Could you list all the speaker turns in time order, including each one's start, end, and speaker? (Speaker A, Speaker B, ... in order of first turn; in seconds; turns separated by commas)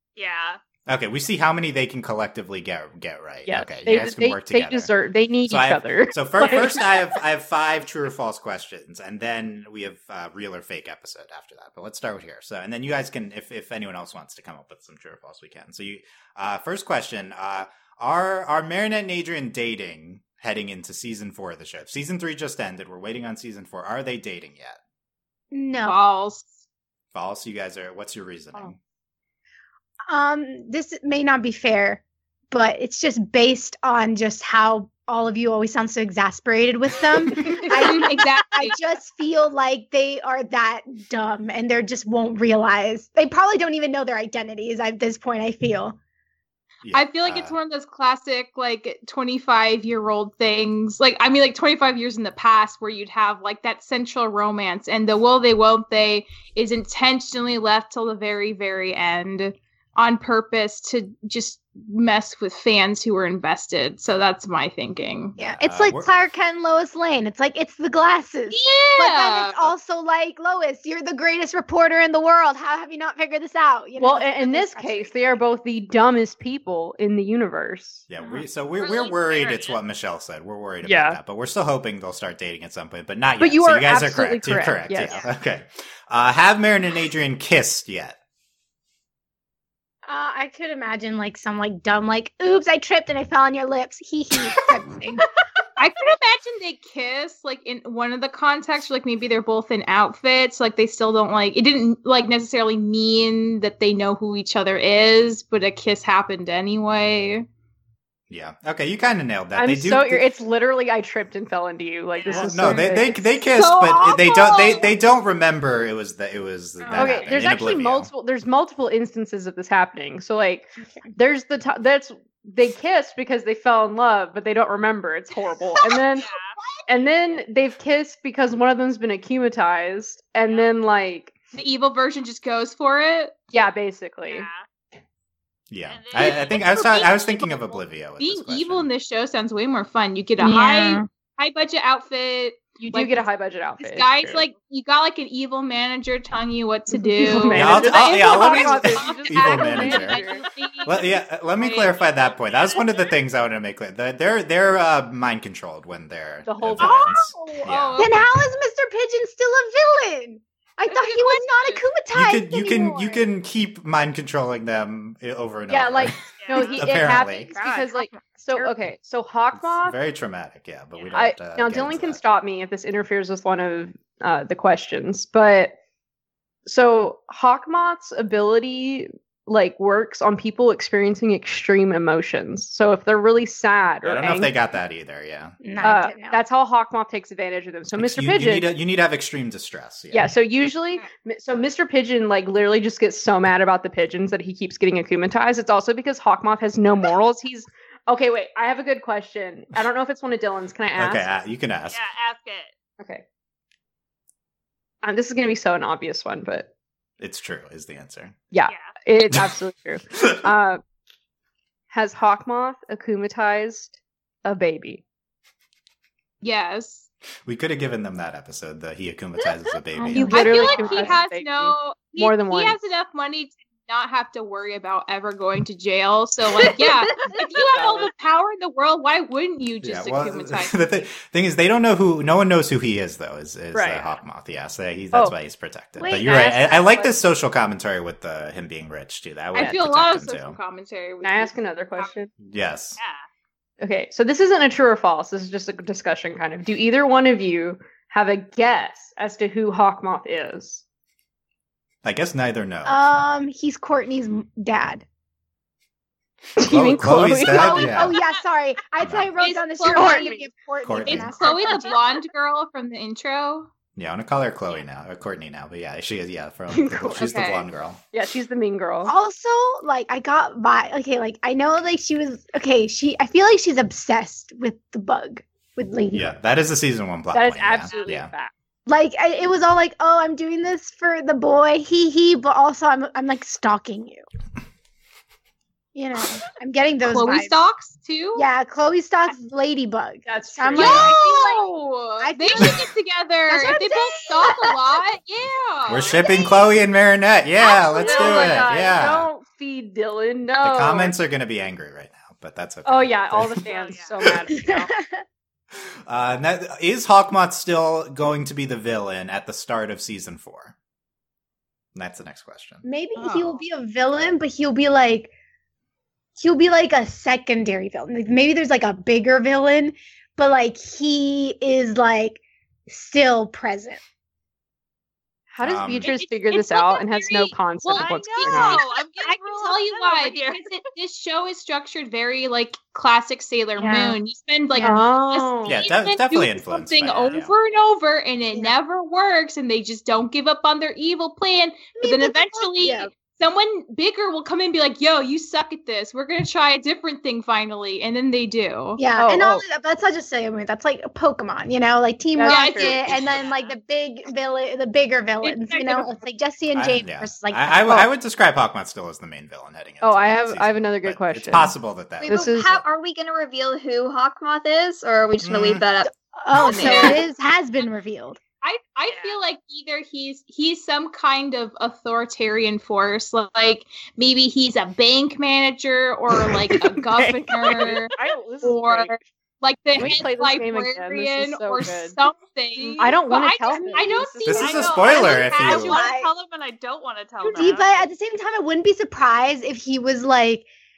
Speaker A: 0.2-0.6, Speaker B: 0.9-4.9, Speaker C: 3.5-6.9, Speaker B: 5.5-24.8, Speaker D: 25.5-26.0, Speaker E: 25.8-26.6, Speaker B: 27.1-28.8, Speaker D: 30.1-46.0, Speaker E: 37.4-38.8, Speaker B: 46.8-47.5, Speaker E: 46.9-65.4, Speaker D: 65.4-75.4, Speaker B: 65.6-66.1, Speaker E: 68.5-69.7, Speaker C: 74.0-78.1, Speaker B: 78.1-88.2, Speaker A: 78.8-79.8, Speaker C: 80.8-81.2, Speaker C: 83.4-85.2, Speaker D: 90.1-95.3, Speaker E: 95.8-107.5, Speaker B: 108.3-110.3, Speaker C: 109.6-113.4, Speaker A: 112.1-112.5, Speaker B: 112.3-118.1, Speaker E: 113.5-114.9, Speaker D: 116.9-117.2, Speaker C: 116.9-126.3, Speaker A: 126.2-126.6, Speaker C: 126.9-131.3, Speaker E: 131.5-133.4, Speaker C: 133.5-134.5, Speaker A: 134.3-134.7, Speaker B: 135.7-138.9, Speaker A: 135.9-137.8, Speaker E: 138.2-143.3, Speaker D: 140.4-141.1, Speaker C: 142.8-144.1, Speaker E: 143.8-151.2, Speaker C: 147.0-150.5, Speaker B: 147.5-150.3, Speaker B: 150.8-158.1, Speaker A: 151.6-153.1, Speaker C: 156.5-157.3, Speaker E: 156.8-158.3, Speaker D: 156.8-163.3, Speaker E: 160.9-161.8, Speaker B: 162.1-167.6, Speaker C: 165.7-170.0, Speaker A: 166.4-166.8, Speaker E: 167.3-168.7, Speaker B: 169.6-172.2, Speaker C: 171.1-175.8, Speaker C: 176.7-184.5, Speaker B: 184.0-185.6, Speaker D: 185.6-186.4, Speaker C: 185.8-188.7, Speaker B: 188.0-190.3, Speaker C: 190.1-201.3, Speaker B: 201.0-202.0, Speaker A: 201.9-202.7, Speaker C: 205.0-206.7, Speaker B: 207.2-208.4, Speaker C: 208.5-210.8, Speaker A: 208.7-208.9, Speaker C: 211.9-215.0, Speaker E: 216.4-217.1, Speaker B: 217.5-220.9, Speaker D: 219.9-221.2, Speaker C: 220.1-222.8, Speaker E: 220.3-231.1, Speaker C: 227.4-228.1, Speaker B: 229.8-240.6, Speaker C: 233.7-234.1, Speaker D: 236.0-236.3, Speaker C: 236.0-237.2, Speaker E: 239.5-242.1, Speaker C: 241.2-242.3, Speaker B: 242.4-243.0, Speaker A: 243.0-243.3, Speaker C: 243.8-250.8, Speaker B: 252.0-253.0, Speaker D: 252.9-255.1, Speaker C: 256.6-257.9, Speaker B: 256.6-258.2, Speaker D: 257.4-262.0, Speaker B: 259.0-259.3, Speaker E: 259.4-260.5, Speaker A: 259.9-260.5, Speaker B: 260.8-261.4, Speaker E: 261.1-263.7, Speaker A: 261.4-262.3, Speaker B: 264.0-268.0, Speaker C: 266.7-267.3, Speaker E: 267.2-267.6, Speaker C: 268.1-269.1, Speaker D: 269.1-276.3, Speaker B: 276.1-278.3, Speaker C: 277.3-278.5, Speaker A: 277.9-278.2, Speaker D: 278.9-284.2, Speaker D: 285.9-287.6, Speaker E: 287.0-288.5, Speaker D: 288.4-292.9, Speaker C: 290.3-291.1, Speaker E: 290.8-296.2, Speaker B: 290.8-291.1, Speaker D: 293.5-294.9, Speaker B: 295.9-299.3, Speaker D: 296.1-296.4, Speaker C: 298.0-301.2, Speaker A: 298.0-298.9, Speaker E: 298.0-298.4, Speaker B: 300.6-303.7, Speaker C: 302.9-304.9, Speaker A: 303.7-304.1, Speaker D: 304.5-305.2, Speaker B: 306.1-310.8, Speaker B: 311.9-312.9, Speaker D: 312.8-315.3, Speaker E: 313.2-313.6, Speaker D: 316.4-324.0, Speaker C: 325.5-328.8, Speaker B: 325.6-326.1, Speaker E: 326.0-349.0, Speaker A: 328.0-330.7, Speaker D: 333.8-334.2, Speaker D: 334.8-335.0, Speaker C: 334.8-335.9, Speaker B: 335.7-337.5, Speaker D: 342.0-343.1, Speaker D: 349.0-358.1, Speaker C: 349.2-349.6, Speaker C: 352.4-353.0, Speaker E: 352.5-353.5, Speaker A: 353.1-353.7, Speaker E: 355.4-356.1, Speaker B: 356.8-362.6, Speaker C: 360.0-361.7, Speaker F: 362.2-367.2, Speaker C: 362.3-362.8, Speaker B: 365.4-365.8, Speaker D: 366.1-368.4, Speaker E: 368.6-386.0, Speaker A: 369.1-369.4, Speaker C: 376.5-379.2, Speaker A: 377.6-377.9, Speaker C: 380.0-382.2, Speaker A: 382.8-383.1, Speaker C: 383.0-384.7, Speaker D: 383.7-384.4, Speaker B: 384.5-386.0, Speaker A: 384.6-388.1, Speaker D: 384.9-386.3, Speaker D: 387.4-390.7